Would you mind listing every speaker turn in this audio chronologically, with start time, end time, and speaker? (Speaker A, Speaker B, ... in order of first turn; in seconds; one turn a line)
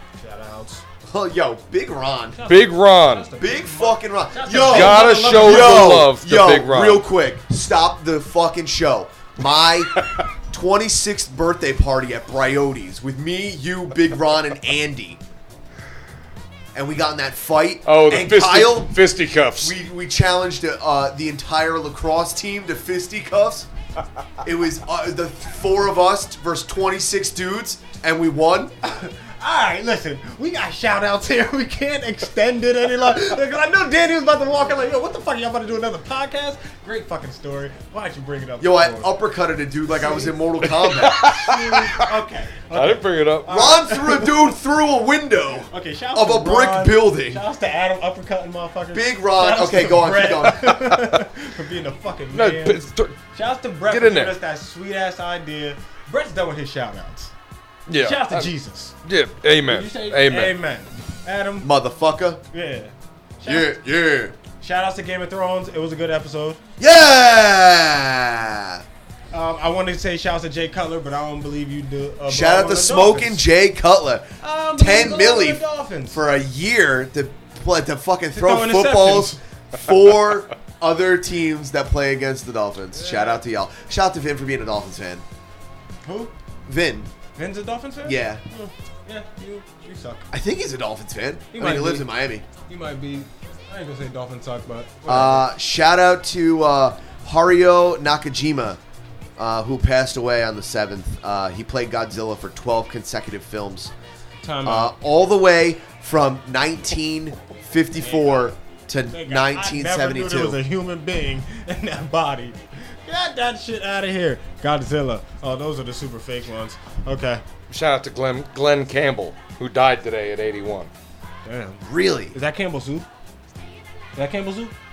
Speaker A: 0.2-0.8
Speaker B: 1.1-2.4
Speaker A: 2.3-6.1
Speaker C: 2.5-3.3
Speaker B: 3.4-15.2
Speaker C: 4.6-7.0
Speaker B: 16.7-19.0
Speaker C: 17.9-19.8
Speaker B: 19.6-23.7
Speaker B: 24.4-28.7
Speaker A: 28.8-39.2
Speaker B: 38.6-41.3
Speaker A: 39.9-40.3
Speaker C: 40.8-42.0
Speaker A: 41.2-44.3
Speaker C: 42.7-43.7
Speaker B: 43.5-47.4
Speaker A: 45.7-57.3
Speaker B: 48.9-50.8
Speaker C: 50.4-51.1
Speaker C: 52.3-53.2
Speaker C: 53.9-54.4
Speaker C: 57.9-58.5
Speaker A: 58.0-58.9
Speaker C: 59.0-60.6
Speaker A: 59.6-61.7
Speaker B: 61.6-62.4
Speaker A: 62.5-63.8
Speaker B: 63.5-64.4
Speaker A: 64.6-66.6
Speaker B: 66.8-68.8
Speaker A: 69.3-73.5
Speaker B: 72.3-85.2
Speaker A: 74.4-76.2
Speaker A: 78.3-79.4
Speaker A: 82.9-83.5
Speaker A: 86.0-86.3
Speaker B: 86.7-87.1
Speaker A: 87.4-90.3
Speaker B: 88.0-88.4
Speaker B: 90.3-92.5
Speaker A: 91.5-95.5
Speaker B: 95.1-98.8
Speaker B: 99.4-103.9
Speaker A: 104.4-105.0
Speaker B: 104.6-110.6
Speaker A: 108.0-108.5
Speaker A: 109.1-117.4
Speaker C: 117.7-120.9
Speaker A: 121.5-123.1
Speaker B: 121.8-122.4
Speaker A: 124.2-124.8